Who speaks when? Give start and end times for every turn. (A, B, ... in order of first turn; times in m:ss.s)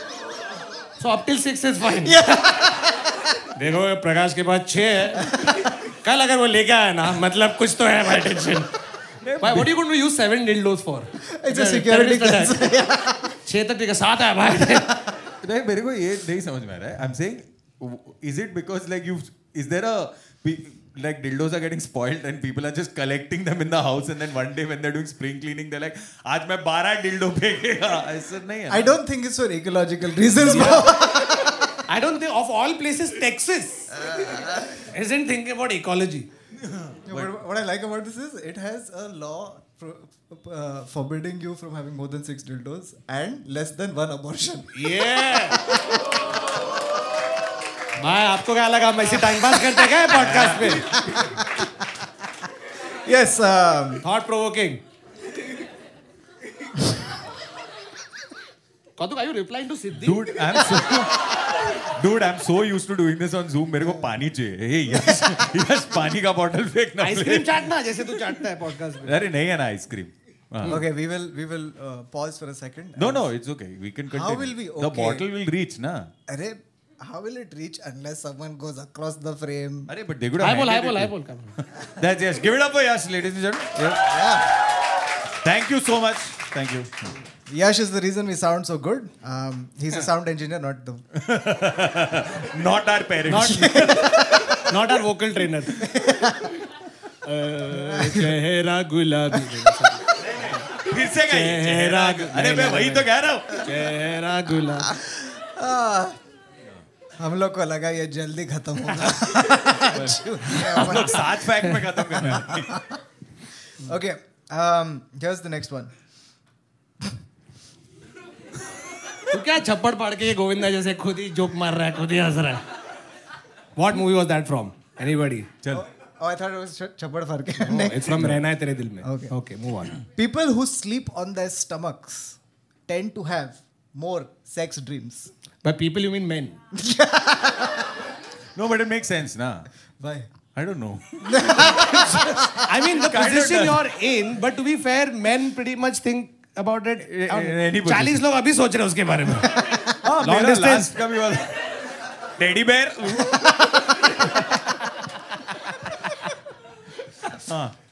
0:01.0-0:02.5 A
0:02.0-0:03.3 B
0:03.5-0:08.7 A
0:05.3-0:05.7 B
0:09.2-0:09.7 C
0:09.4-0:12.7 A
0:11.2-0:13.4 B
0:13.4-0:14.9 A
0:15.4-0:29.0 C
0:28.7-0:31.7 B
0:30.4-0:36.3 A
0:34.0-0:34.8 B
0:36.6-0:37.3 C
0:37.1-0:46.1 B
0:44.7-0:45.6 A
0:48.0-0:51.0 A
0:50.1-0:51.1 C
0:50.9-0:51.8 B
0:53.0-0:54.0 B
0:54.0-0:54.8 A
0:59.0-1:00.3 A
1:00.0-1:08.3 C
1:05.0-1:05.3 B
1:07.0-1:09.2 A
1:09.0-1:10.8 C
1:10.6-1:13.3 B
1:13.0-1:16.1 C
1:14.1-1:15.2 B
1:16.3-1:19.9 B
1:19.9-1:24.1 C
1:20.4-1:21.6 A
1:24.0-1:24.5 B
1:25.4-1:27.1 C
1:27.5-1:31.0 B
1:31.1-1:34.8 C
1:33.3-1:35.9 A
1:33.4-1:34.6 B
1:35.8-1:36.6 B
1:37.2-1:40.6 A
1:37.8-1:38.3 B
1:40.2-1:43.7 C
1:41.2-1:45.0 A
1:44.8-1:46.2 B
1:47.2-1:51.4 B
1:49.9-1:52.8 C
1:50.5-1:51.2 A
1:52.2-1:53.0 B
1:53.8-1:55.9 B
1:59.3-2:02.6 A
2:03.8-2:05.5 A
2:05.7-2:08.4 B
2:07.6-2:10.0 A
2:09.0-2:09.4 B
2:10.1-2:15.3 B
2:15.6-2:16.6 A
2:16.7-2:18.0 B
2:18.6-2:19.7 C
2:20.0-2:20.3 B
2:20.6-2:23.9 C
2:21.2-2:22.6 B
2:22.6-2:31.0 A
2:27.1-2:28.2 C
2:29.6-2:29.9 B
2:30.0-2:31.6 C
2:32.4-2:34.3 C
2:37.3-2:37.7 C